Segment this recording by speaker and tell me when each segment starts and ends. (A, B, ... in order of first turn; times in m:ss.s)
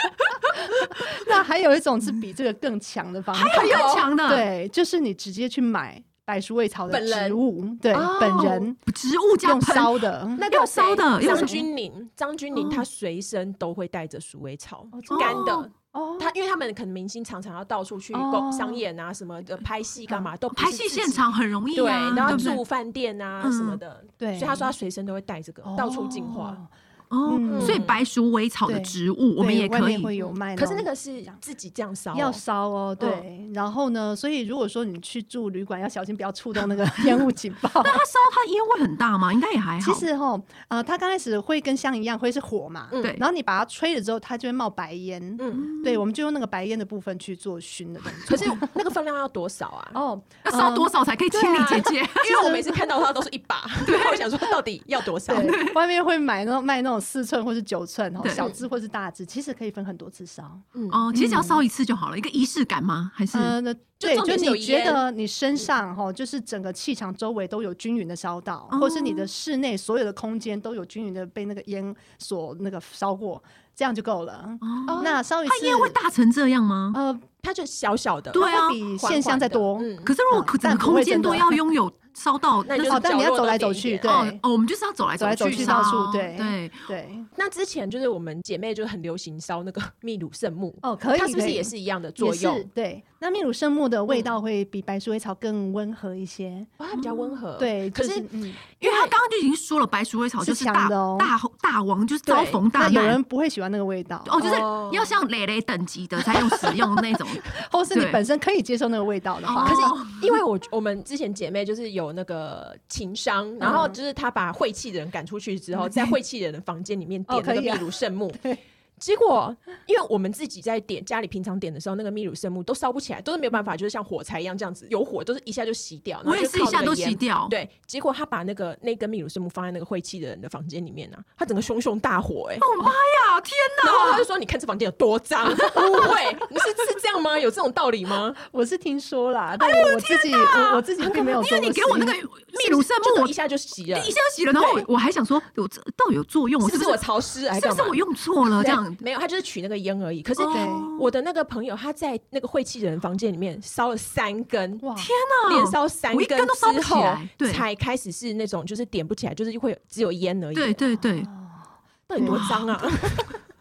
0:00.2-0:01.2 A
0:00.6-0:08.8 B
0:03.3-0:04.5 A
0:03.5-0:04.1 C
0:06.9-0:07.4 C
0:07.9-0:08.7 C
0:08.8-0:11.6 A
0:09.4-0:10.5 B
0:10.4-0:26.6 C
0:11.2-0:11.6 B
0:14.9-0:16.3 B
0:15.1-0:15.7 A
0:18.1-0:18.8 B
0:20.5-0:22.6 A
0:22.2-0:22.6 B
0:23.4-0:23.8 A
0:24.2-0:24.7 B
0:25.6-0:26.7 B
0:27.1-0:30.1 A
0:27.2-0:27.9 B
0:27.5-0:28.0 C
0:28.6-0:31.4 B
0:30.2-0:32.4 C
0:32.1-0:38.0 B
0:37.8-0:40.1 A
0:39.8-0:48.8 B
0:42.9-0:43.2 C
0:45.4-0:45.7 C
0:45.6-0:46.0 A
0:48.2-0:50.0 C
0:49.9-0:50.9 B
0:50.4-0:52.6 A
0:51.3-0:55.6 C
0:52.3-0:52.6 B
0:53.8-0:54.4 A
0:55.3-1:01.6 B
0:55.3-0:55.8 A
0:58.2-0:58.5 A
0:58.3-0:58.6 C
1:00.7-1:01.0 C
1:00.9-1:03.6 A
1:03.3-1:16.0 B
1:04.0-1:05.0 C
1:08.7-1:09.3 A
1:14.6-1:17.0 A
1:14.9-1:15.2 C
1:16.9-1:17.2 B
1:17.4-1:20.1 C
1:18.3-1:18.8 A
1:18.4-1:21.6 B
1:20.0-1:23.0 A
1:22.6-1:24.1 C
1:22.9-1:24.4 B
1:24.0-1:26.9 A
1:25.2-1:27.3 B
1:25.5-1:25.9 C
1:27.3-1:32.7 C
1:30.8-1:36.7 B
1:36.8-1:38.3 C
1:37.6-1:38.6 B
1:38.8-1:39.1 C
1:38.8-1:43.2 A
1:40.4-1:41.3 B
1:42.2-1:42.6 C
1:42.7-1:44.3 B
1:44.2-1:48.2 A
1:44.4-1:45.1 C
1:47.5-1:49.9 B
1:49.4-1:50.4 A
1:49.6-1:58.4 C
1:53.6-1:54.0 B
1:57.3-1:58.6 B
1:59.0-2:12.7 C
2:06.2-2:07.5 A
2:12.6-2:14.3 A
2:13.8-2:18.4 C
2:18.4-2:22.2 B
2:19.6-2:23.3 A
2:22.5-2:24.8 C
2:23.9-2:29.0 A
2:26.6-2:28.0 C
2:28.6-2:34.8 C
2:30.4-2:31.1 A
2:30.5-2:30.9 B
2:34.8-2:35.1 B
2:35.0-2:37.6 A
2:35.4-2:40.8 C
2:40.5-2:41.3 A
2:41.1-2:42.5 B
2:42.1-2:43.4 C
2:42.2-2:43.1 A